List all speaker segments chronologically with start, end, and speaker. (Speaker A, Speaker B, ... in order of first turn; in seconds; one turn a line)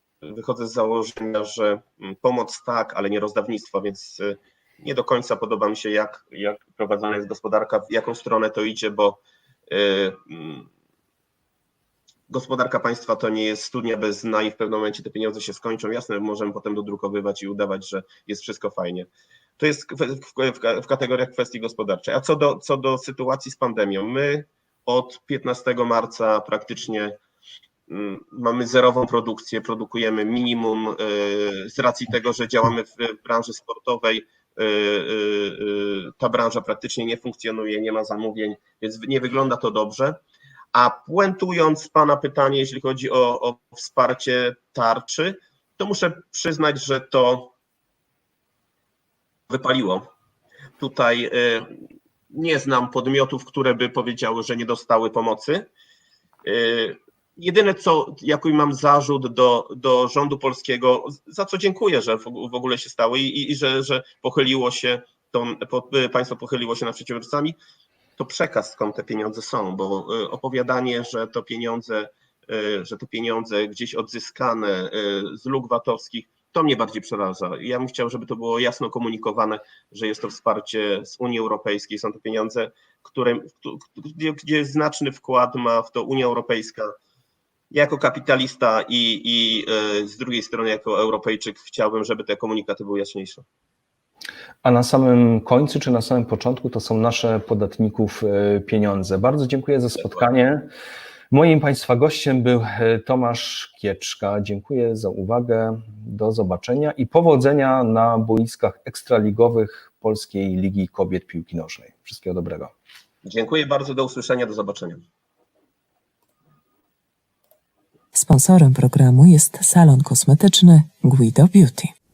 Speaker A: 0.2-10.7
Speaker A: 12.3-27.2
Speaker A: 27.9-40.2
Speaker A: 40.7-47.5
Speaker A: 49.5-50.1
Speaker A: 50.8-51.8
Speaker A: 52.3-55.7
Speaker A: 56.4-67.5
Speaker A: 68.2-86.9
Speaker A: 87.7-93.4
Speaker B: 94.6-100.7
Speaker A: 100.0-100.2
Speaker B: 101.3-112.7
Speaker A: 113.2-115.0
Speaker C: 118.1-121.9